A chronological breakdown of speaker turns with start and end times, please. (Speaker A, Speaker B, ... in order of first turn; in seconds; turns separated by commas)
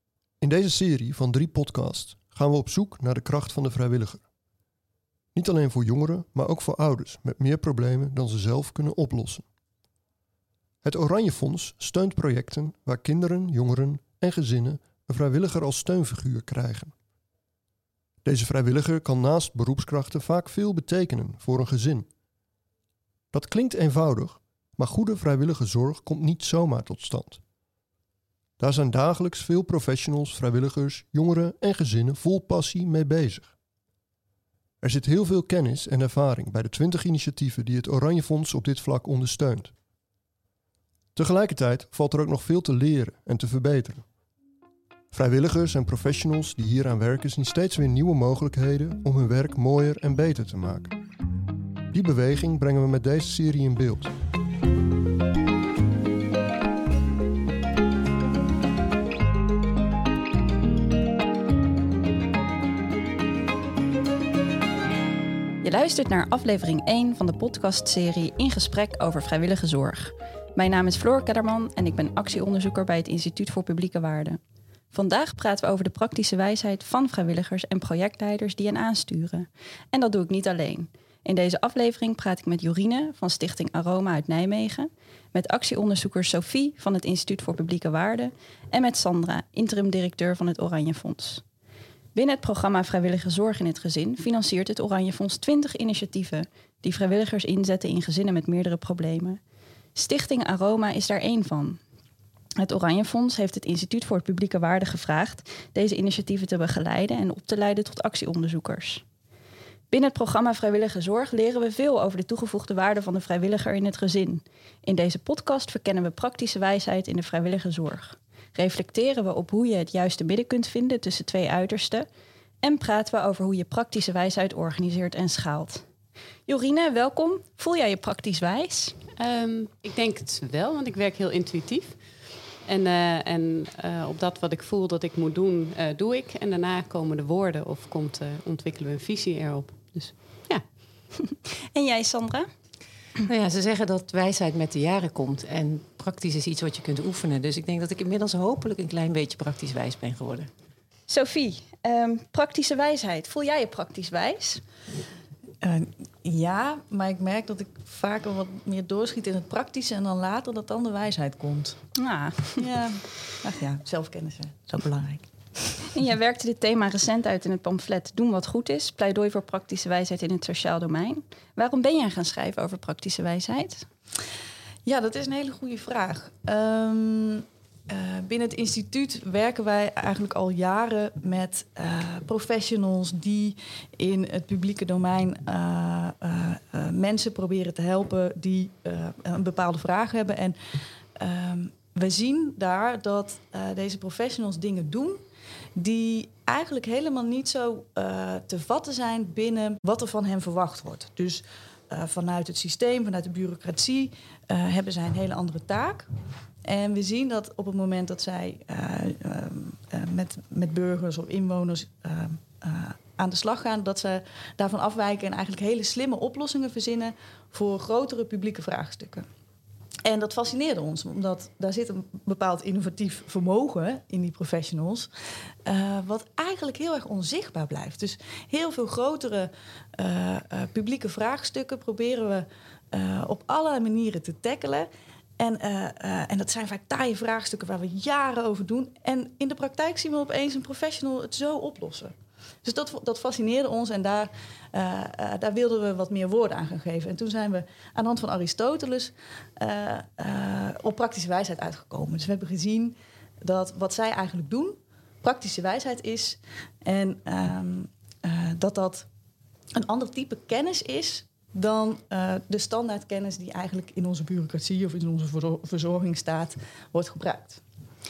Speaker A: 0.4-4.2, Speaker A: 5.3-9.5, Speaker A: 10.8-16.9, Speaker A: 18.2-22.1, Speaker A: 23.3-27.4, Speaker A: 28.6-33.5, Speaker A: 34.8-39.7, Speaker A: 41.1-44.0, Speaker A: 45.1-50.9, Speaker A: 51.9-54.1, Speaker B: 65.6-74.4, Speaker B: 74.9-91.4, Speaker B: 92.2-99.4, Speaker B: 100.0-101.8, Speaker B: 102.6-109.0, Speaker B: 109.9-122.1, Speaker B: 122.6-125.9, Speaker B: 126.5-128.9, Speaker C: 129.2-132.0, Speaker C: 132.6-140.6, Speaker B: 141.2-142.5, Speaker D: 143.2-150.5, Speaker B: 151.1-154.6, Speaker E: 155.6-161.8, Speaker B: 162.0-162.7, Speaker E: 162.6-165.3, Speaker B: 165.9-173.9, Speaker E: 174.8-190.6, Speaker E: 191.2-195.2, Speaker E: 195.8-206.1, Speaker E: 206.6-219.2, Speaker E: 220.1-225.1, Speaker E: 225.7-234.9, Speaker E: 235.4-259.1, Speaker E: 259.8-267.6